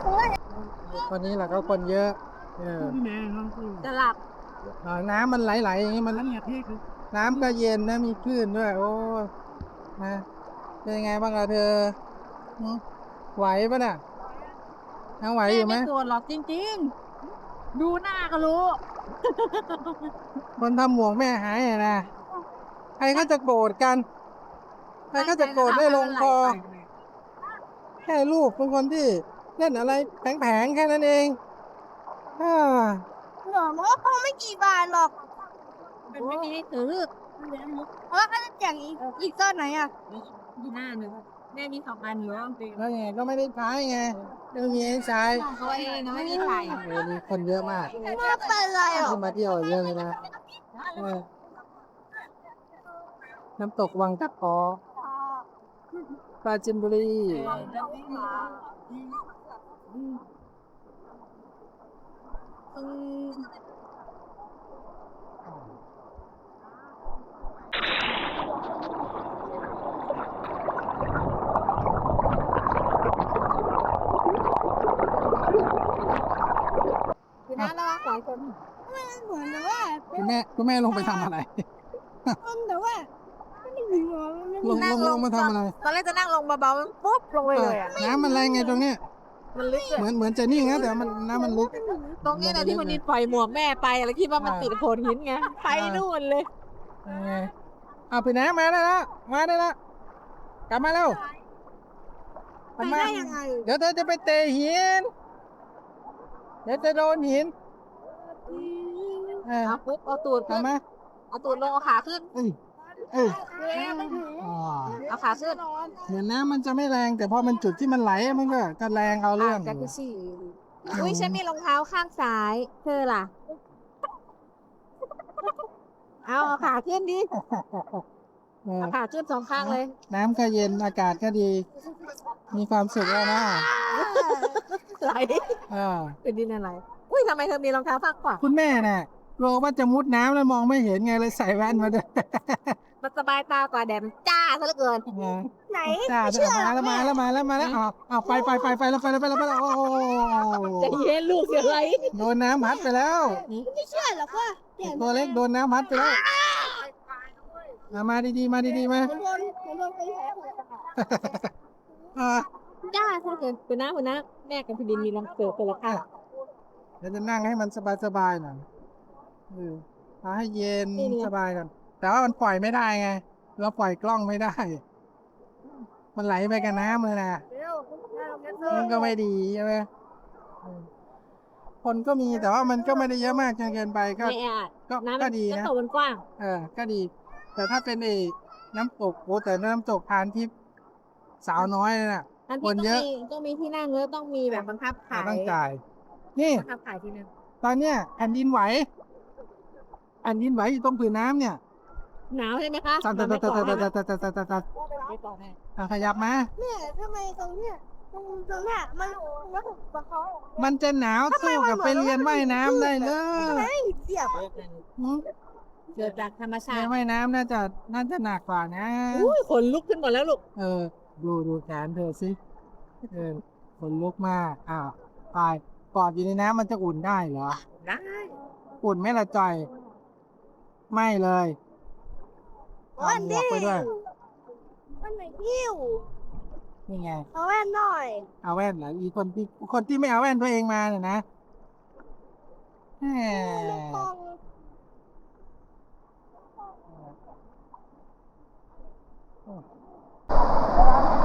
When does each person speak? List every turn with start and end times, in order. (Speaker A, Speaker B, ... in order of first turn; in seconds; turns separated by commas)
Speaker A: 0.9-3.0, Speaker B: 3.0-4.2, Speaker A: 4.8-6.2, Speaker B: 6.1-6.8, Speaker A: 7.1-9.3, Speaker A: 10.0-10.2, Speaker A: 10.8-12.0, Speaker A: 12.6-12.8, Speaker A: 13.3-14.0, Speaker A: 15.2-15.9, Speaker B: 15.4-16.9, Speaker B: 17.7-20.0, Speaker A: 20.6-22.1, Speaker A: 23.0-24.1, Speaker A: 25.1-26.6, Speaker B: 25.1-26.9, Speaker A: 28.0-31.4, Speaker A: 32.4-33.0, Speaker C: 33.4-35.2, Speaker B: 36.1-37.9, Speaker C: 38.1-39.9, Speaker B: 40.1-42.8, Speaker A: 42.8-45.5, Speaker B: 45.0-46.9, Speaker C: 46.1-46.8, Speaker A: 46.3-47.9, Speaker B: 47.9-49.2, Speaker C: 48.0-49.2, Speaker A: 48.9-50.2, Speaker B: 50.7-51.2, Speaker A: 51.0-51.2, Speaker A: 53.6-54.8, Speaker A: 56.4-57.7, Speaker B: 57.3-58.6, Speaker B: 62.7-63.5, Speaker A: 65.5-65.7, Speaker B: 77.5-78.6, Speaker C: 78.9-80.3, Speaker A: 80.1-81.6, Speaker C: 80.9-81.2, Speaker C: 82.4-83.1, Speaker C: 83.6-85.1, Speaker A: 84.6-85.8, Speaker B: 84.7-88.0, Speaker A: 87.5-89.0, Speaker C: 87.8-88.8, Speaker B: 89.5-90.1, Speaker A: 89.9-93.0, Speaker C: 90.5-92.0, Speaker B: 92.2-96.5, Speaker A: 94.4-94.8, Speaker A: 95.7-96.0, Speaker A: 97.0-97.5, Speaker A: 98.1-99.8, Speaker A: 100.7-101.2, Speaker A: 102.8-105.1, Speaker B: 102.8-103.7, Speaker A: 106.6-107.5, Speaker B: 108.5-110.7, Speaker A: 109.4-109.8, Speaker A: 110.5-110.8, Speaker B: 111.3-112.3, Speaker A: 113.1-113.4, Speaker C: 113.1-116.0, Speaker B: 113.6-114.3, Speaker A: 114.3-115.0, Speaker B: 115.0-115.6, Speaker A: 116.0-119.9, Speaker B: 119.3-123.3, Speaker A: 120.9-121.4, Speaker B: 126.2-127.3, Speaker A: 127.3-128.0, Speaker A: 128.6-128.9, Speaker B: 128.8-129.9, Speaker A: 129.5-131.7, Speaker A: 132.5-133.7, Speaker B: 133.2-135.6, Speaker C: 133.9-134.5, Speaker A: 135.7-136.2, Speaker B: 136.2-138.4, Speaker A: 138.4-142.8, Speaker B: 143.0-145.1, Speaker A: 145.1-151.0, Speaker C: 145.7-147.2, Speaker C: 148.2-148.8, Speaker C: 149.4-150.7, Speaker B: 150.8-152.1, Speaker C: 151.4-155.4, Speaker A: 152.1-153.5, Speaker A: 154.8-156.2, Speaker C: 156.1-156.6, Speaker A: 157.9-159.2, Speaker C: 158.7-160.9, Speaker A: 161.0-161.5, Speaker A: 162.1-162.5, Speaker B: 162.8-166.1, Speaker A: 167.0-168.7, Speaker A: 169.5-174.8, Speaker B: 170.9-171.3, Speaker A: 176.1-177.4, Speaker C: 177.7-179.1, Speaker A: 178.7-179.9, Speaker A: 181.8-185.7, Speaker B: 184.2-186.2, Speaker A: 186.4-190.5, Speaker A: 191.4-193.1, Speaker B: 192.5-195.6, Speaker A: 194.5-195.8, Speaker A: 196.3-196.7, Speaker B: 196.5-197.3, Speaker A: 197.6-198.9, Speaker A: 200.2-201.6, Speaker B: 202.3-203.9, Speaker A: 203.0-204.7, Speaker B: 204.9-205.6, Speaker A: 205.8-206.5, Speaker C: 206.6-210.6, Speaker A: 210.6-213.7, Speaker C: 211.3-214.4, Speaker B: 213.3-213.7, Speaker B: 214.2-214.8, Speaker A: 215.0-215.2, Speaker B: 215.9-216.9, Speaker A: 216.7-219.4, Speaker B: 219.1-220.4, Speaker A: 220.6-222.4, Speaker A: 223.1-227.6, Speaker B: 227.8-228.3, Speaker A: 228.8-229.7, Speaker A: 230.9-231.6, Speaker C: 233.0-234.0, Speaker A: 233.0-233.9, Speaker C: 235.0-236.1, Speaker A: 236.9-237.3, Speaker C: 237.3-238.3, Speaker A: 238.4-241.2, Speaker A: 243.0-244.1, Speaker C: 243.3-244.4